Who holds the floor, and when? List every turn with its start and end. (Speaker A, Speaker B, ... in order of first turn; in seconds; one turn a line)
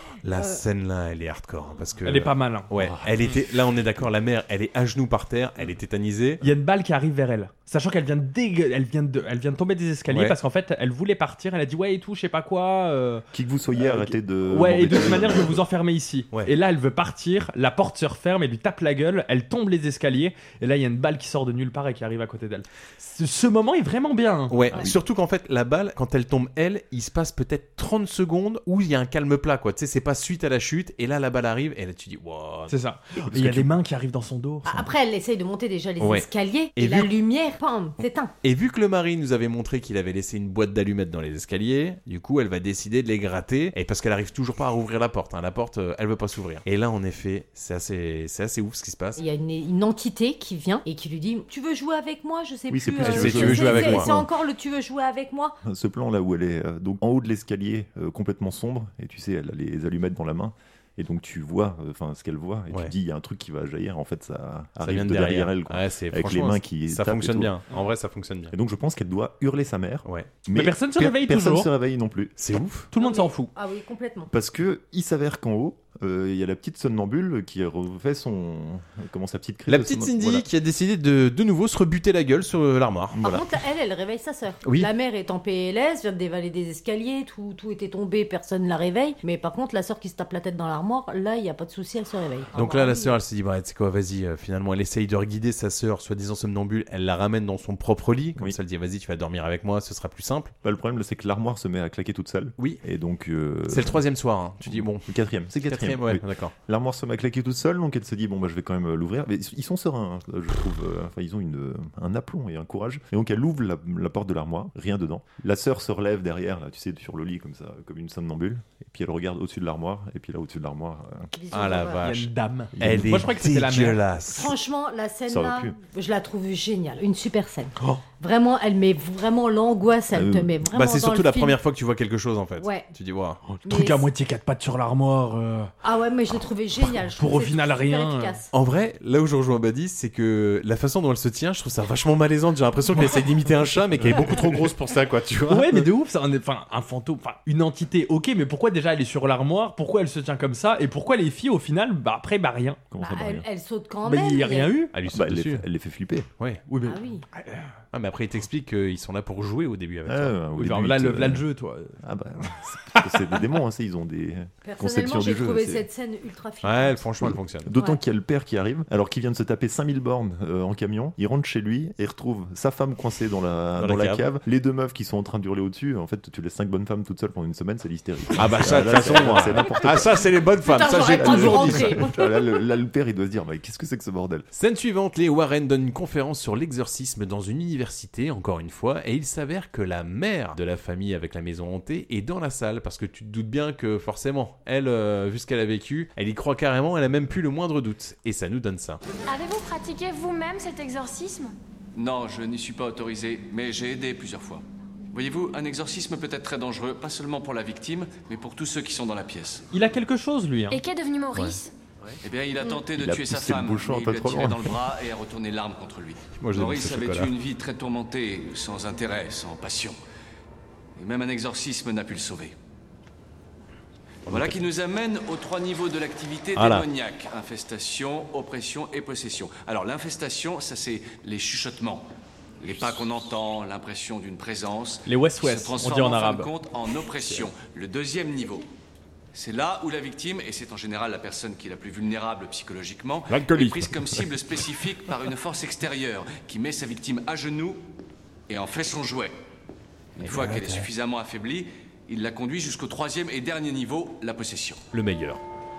Speaker A: 0.2-6.4
Speaker B: 2.1-2.7
Speaker C: 2.8-3.1
Speaker B: 6.4-13.3
Speaker A: 10.1-10.4
Speaker C: 13.3-15.6
Speaker B: 13.8-24.6
Speaker A: 24.5-32.7
Speaker B: 32.7-34.7
Speaker C: 33.2-33.7
Speaker D: 34.6-38.3
Speaker A: 36.0-37.1
Speaker A: 38.4-49.2
Speaker D: 49.2-55.6
Speaker C: 52.7-54.3
Speaker A: 53.0-54.1
Speaker C: 55.6-67.5
Speaker A: 64.8-68.5
Speaker C: 68.5-72.3
Speaker A: 70.1-70.3
Speaker B: 70.5-71.7
Speaker A: 72.4-72.9
Speaker B: 72.9-73.5
Speaker D: 73.0-74.3
Speaker C: 74.3-80.5
Speaker A: 79.7-83.4
Speaker C: 83.2-83.4
Speaker D: 83.2-93.2
Speaker A: 84.6-84.9
Speaker A: 92.5-100.5
Speaker C: 100.6-104.0
Speaker A: 103.7-105.1
Speaker C: 104.7-121.3
Speaker A: 105.6-106.5
Speaker D: 121.3-122.1
Speaker A: 121.5-124.5
Speaker B: 122.0-124.0
Speaker C: 122.8-123.3
Speaker D: 124.3-131.6
Speaker C: 125.3-125.8
Speaker C: 130.1-130.5
Speaker A: 130.7-133.4
Speaker D: 132.6-132.9
Speaker B: 133.5-135.7
Speaker D: 133.7-134.1
Speaker D: 135.8-138.5
Speaker B: 137.2-138.4
Speaker A: 138.5-145.9
Speaker B: 145.5-152.8
Speaker C: 152.9-153.5
Speaker D: 153.0-154.8
Speaker B: 154.1-154.9
Speaker A: 154.9-155.7
Speaker C: 155.1-156.3
Speaker B: 156.7-157.7
Speaker D: 156.8-157.3
Speaker A: 157.9-160.3
Speaker C: 160.1-161.5
Speaker B: 160.6-162.0
Speaker C: 162.0-165.9
Speaker B: 162.9-163.4
Speaker D: 164.6-167.0
Speaker A: 166.6-167.7
Speaker C: 167.2-184.5
Speaker A: 173.8-174.2
Speaker A: 178.3-182.0
Speaker D: 180.7-182.4
Speaker A: 184.5-199.0
Speaker E: 199.3-201.6
Speaker F: 201.9-209.7
Speaker B: 209.7-210.8
Speaker E: 210.7-211.7
Speaker A: 211.3-211.6
Speaker F: 212.2-220.0
Speaker C: 212.9-214.8
Speaker A: 216.4-217.3
Speaker F: 221.0-222.6
Speaker A: 224.3-224.6
Speaker F: 224.3-232.1
Speaker A: 226.6-226.9
Speaker F: 232.6-238.7
Speaker B: 235.1-236.5
Speaker F: 239.3-247.9
Speaker F: 248.5-249.4
Speaker F: 250.2-254.8
Speaker A: 250.2-250.9
Speaker A: 254.9-255.4